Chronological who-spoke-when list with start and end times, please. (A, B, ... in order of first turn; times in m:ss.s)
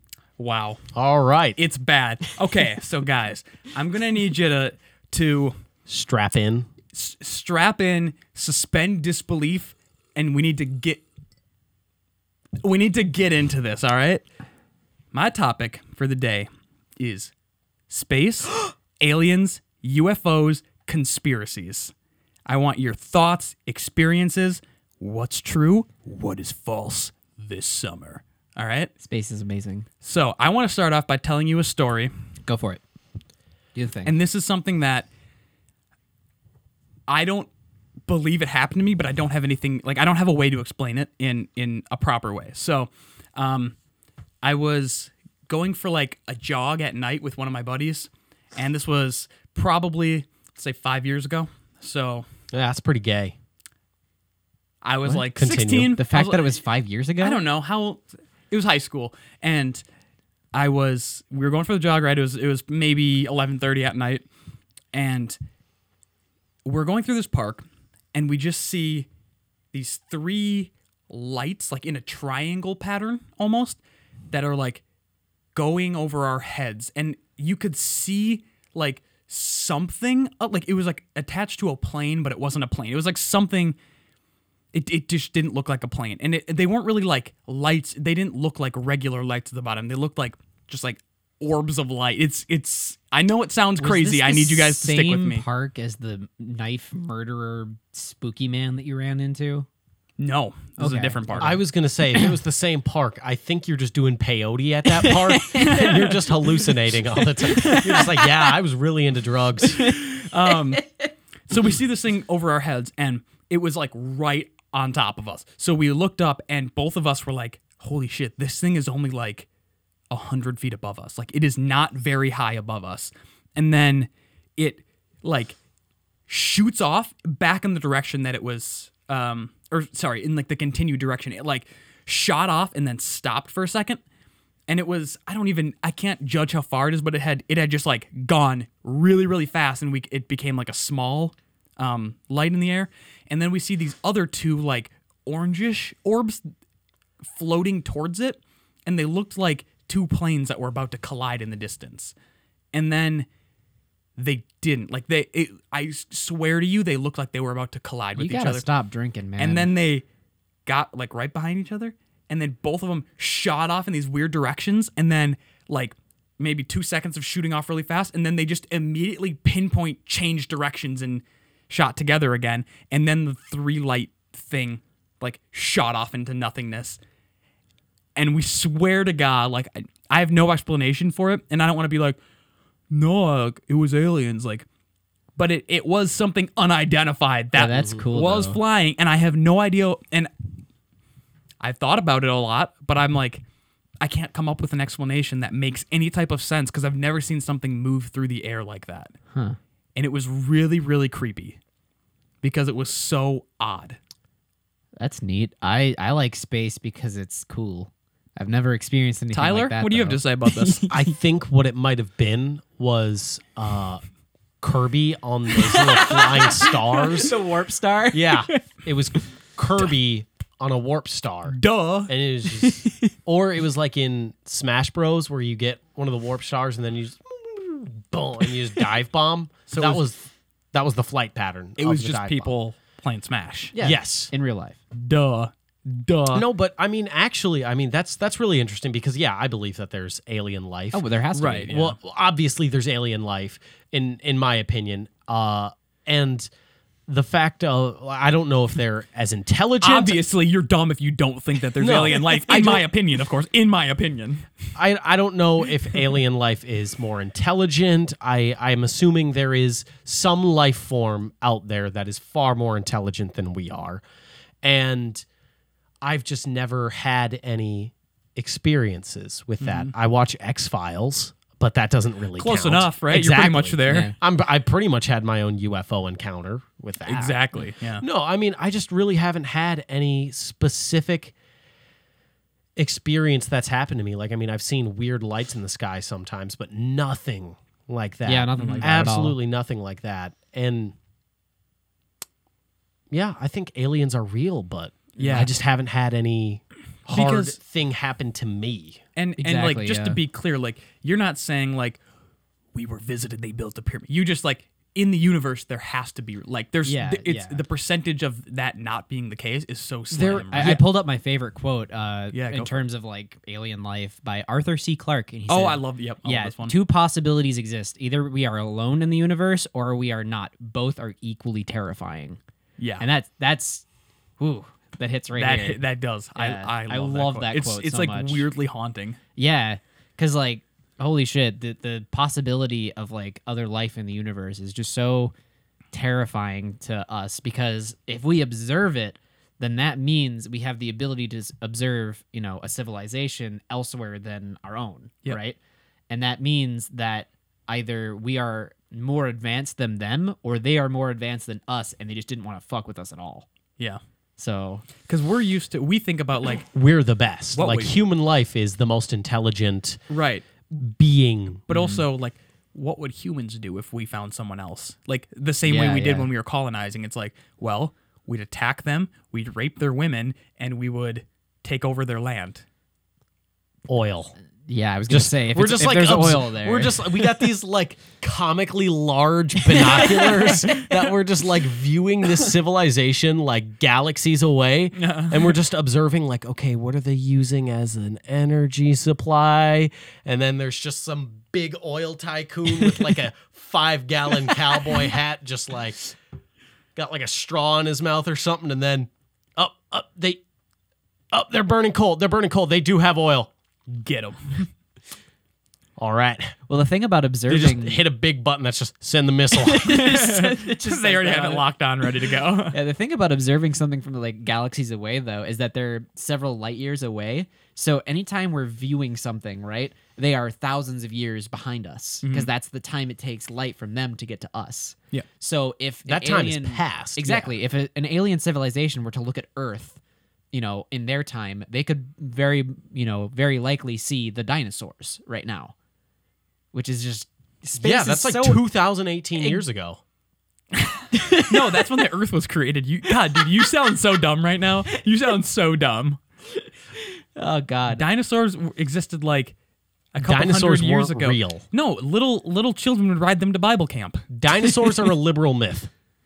0:00.4-0:00.8 A
0:00.9-0:01.6 B
0:01.6-0:05.5 A
0:05.9-0:06.7 B
0:06.9-0:11.0 A
0:12.6-0:14.2 A
0:15.1-0:17.3 A
0:17.9-0:21.9 A
0:22.5-0:28.9 A
0:29.0-0:29.8 C
0:30.0-0:32.1 A
0:32.5-0:32.8 C
0:33.7-0:34.1 C
0:34.0-0:35.1 A
0:37.1-0:37.5 A
0:38.1-0:43.7 A
0:44.4-0:52.2 A
0:52.5-0:53.4 B
0:54.8-0:56.5 A
0:55.0-0:57.4 C
0:55.4-0:55.9 B
0:57.2-0:59.8 A
1:00.5-1:04.2 A
1:04.9-1:05.4 A
1:06.6-1:09.1 A
1:09.7-1:13.8 A
1:14.3-1:14.8 A
1:15.5-1:23.8 A
1:24.7-1:35.4 A
1:33.8-1:39.7 C
1:40.2-1:41.6 A
1:40.8-1:41.6 C
1:41.4-1:49.9 B
1:44.9-1:46.1 C
1:45.6-1:46.2 A
1:47.4-1:48.3 C
1:49.8-1:51.1 C
1:49.9-1:50.9 A
1:51.5-1:59.5 A
2:00.1-2:05.6 A
2:06.3-2:14.0 A
2:14.7-2:26.4 A
2:27.3-2:32.1 A
2:32.7-2:33.3 A
2:34.2-2:38.6 A
2:38.2-2:39.7 C
2:39.4-2:40.0 A
2:40.6-2:57.0 A
2:58.2-3:02.2 A
3:02.9-3:04.6 A
3:05.4-3:10.3 A
3:07.5-3:08.6 C
3:11.6-3:13.4 A
3:14.0-3:19.1 A
3:20.0-3:21.6 A
3:22.4-3:24.0 A
3:25.0-3:31.1 C
3:29.3-3:30.9 A
3:30.9-3:34.0 B
3:34.6-3:37.3 B
3:35.6-3:38.3 C
3:38.1-3:41.6 B
3:41.5-3:42.1 A
3:42.1-3:52.5 B
3:49.7-3:50.0 A
3:51.8-3:53.7 A
3:53.7-3:54.8 C
3:53.8-3:54.3 B
3:54.9-3:56.4 A
3:56.3-4:01.0 B
4:00.9-4:01.7 C
4:01.3-4:02.0 A
4:01.7-4:06.5 B
4:07.1-4:10.2 B
4:09.8-4:14.4 A
4:11.8-4:12.8 B
4:14.7-4:24.0 B
4:24.6-4:25.2 B
4:26.0-4:37.4 B
4:29.6-4:29.9 A
4:32.4-4:34.1 A
4:33.8-4:34.1 C
4:37.0-4:38.0 A
4:38.0-4:41.3 B
4:42.8-4:51.0 B
4:48.2-4:49.4 C
4:48.6-4:49.1 A
4:53.1-4:59.0 B
4:55.2-4:55.5 A
4:55.2-4:55.5 C
4:57.1-4:57.6 A
4:59.2-5:02.0 A
4:59.4-5:00.2 C
5:02.7-5:10.8 A
5:06.8-5:07.6 C
5:10.1-5:22.4 C
5:12.3-5:12.8 A
5:15.5-5:16.8 A
5:22.8-5:23.0 A
5:23.0-5:23.8 C
5:24.4-5:25.8 C
5:25.4-5:29.2 A
5:26.4-5:28.5 C
5:29.4-5:35.3 C
5:35.9-5:45.6 C
5:46.1-5:53.5 C
5:54.4-5:54.8 C
5:55.1-5:56.7 A
5:56.7-6:00.0 B
5:57.5-5:58.0 A
6:00.1-6:00.4 A
6:00.7-6:01.6 B
6:01.7-6:12.6 A
6:01.7-6:02.0 C
6:05.7-6:06.3 C
6:13.9-6:14.3 B
6:14.7-6:17.4 C
6:15.1-6:36.0 B
6:19.6-6:20.9 C
6:25.0-6:25.6 A
6:37.0-6:40.4 B
6:41.3-6:43.5 B
6:43.9-6:44.7 A
6:46.0-6:46.6 B
6:46.7-6:48.0 C
6:47.5-6:50.0 B
6:49.5-7:10.0 C
6:49.8-6:52.8 A
7:02.2-7:02.5 A
7:06.0-7:07.6 B
7:10.5-7:15.7 C
7:16.7-7:18.6 C
7:17.8-7:20.0 B
7:21.1-7:22.0 C
7:21.5-7:26.2 A
7:23.4-7:23.6 C
7:27.4-7:28.0 C
7:27.9-7:29.5 A
7:30.1-7:34.2 A
7:30.2-7:31.6 B
7:34.3-7:35.9 B